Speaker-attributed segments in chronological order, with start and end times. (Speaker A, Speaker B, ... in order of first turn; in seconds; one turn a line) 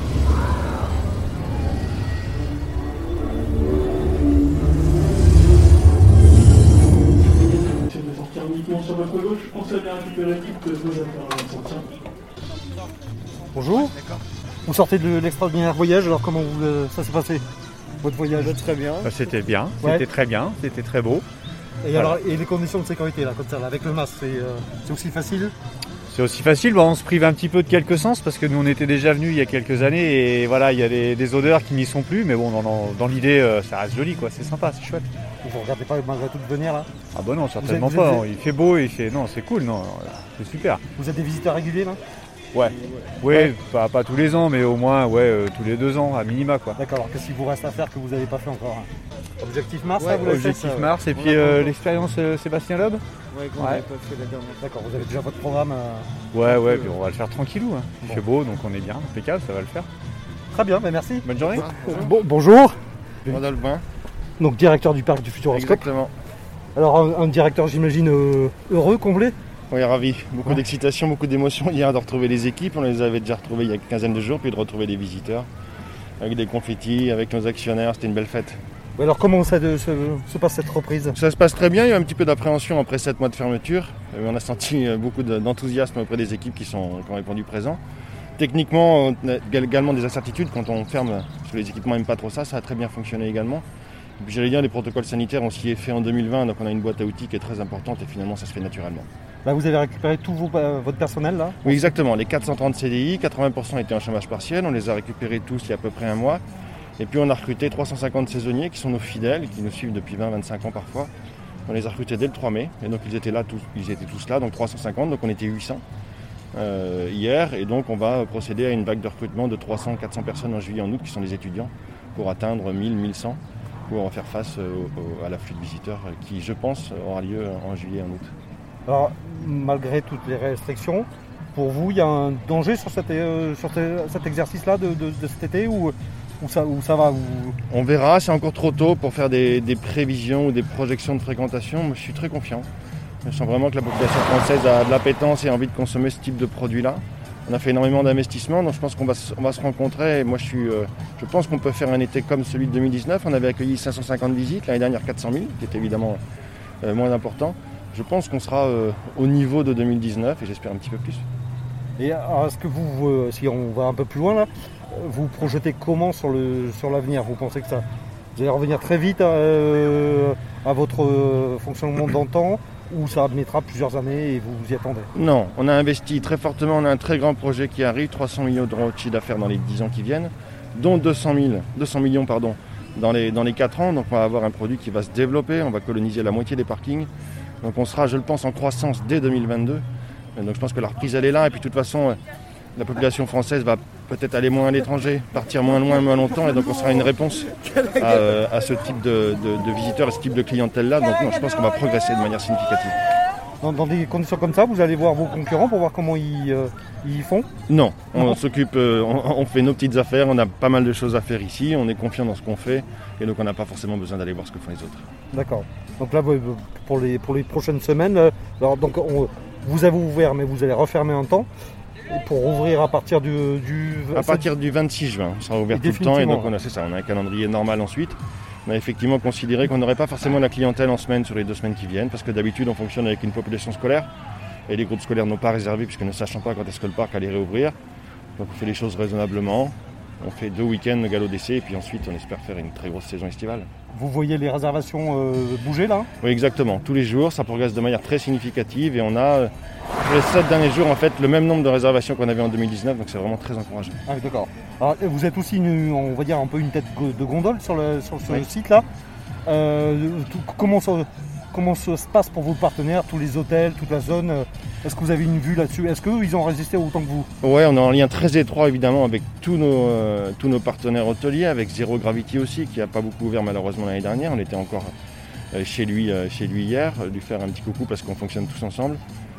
Speaker A: 7.2-11.8
Speaker B: 13.5-14.0
Speaker B: 14.7-17.4
Speaker B: 18.0-19.1
Speaker A: 19.0-21.2
Speaker B: 21.8-25.5
Speaker A: 26.1-35.1
Speaker B: 35.4-36.9
Speaker A: 37.1-40.8
Speaker B: 37.6-38.2
Speaker B: 41.0-42.0
Speaker A: 42.5-46.8
Speaker B: 46.8-48.9
Speaker B: 49.4-51.7
Speaker A: 50.0-53.0
Speaker A: 53.5-53.9
Speaker B: 53.6-53.9
Speaker B: 54.4-56.1
Speaker A: 56.3-59.9
Speaker B: 60.5-63.4
Speaker A: 61.2-61.7
Speaker C: 61.5-62.1
Speaker C: 63.3-63.8
Speaker B: 64.4-65.8
Speaker C: 65.5-66.1
Speaker B: 66.8-69.4
Speaker C: 69.7-75.5
Speaker C: 76.2-78.6
Speaker B: 79.0-81.2
Speaker C: 81.1-87.8
Speaker C: 88.4-93.6
Speaker C: 94.2-99.1
Speaker B: 99.5-101.8
Speaker C: 101.6-106.4
Speaker C: 107.0-111.1
Speaker C: 111.7-115.8
Speaker C: 116.5-128.3
Speaker B: 128.9-137.6
Speaker C: 137.7-142.7
Speaker C: 143.3-156.2
Speaker C: 156.8-161.2
Speaker B: 162.0-167.8
Speaker B: 168.4-175.1
Speaker C: 175.2-187.1
Speaker C: 187.6-189.8
Speaker C: 190.4-192.2
Speaker C: 192.8-203.0
Speaker B: 203.6-207.5
Speaker C: 207.7-215.1
Speaker B: 208.1-208.4
Speaker B: 215.3-221.5
Speaker B: 222.1-224.4
Speaker C: 224.2-234.1
Speaker B: 225.7-226.5
Speaker C: 234.7-237.8
Speaker C: 238.4-243.7
Speaker B: 243.9-246.1
Speaker C: 246.2-249.5
Speaker C: 250.0-254.0
Speaker B: 254.1-258.9
Speaker B: 259.5-267.3
Speaker C: 267.4-274.9
Speaker C: 275.5-279.0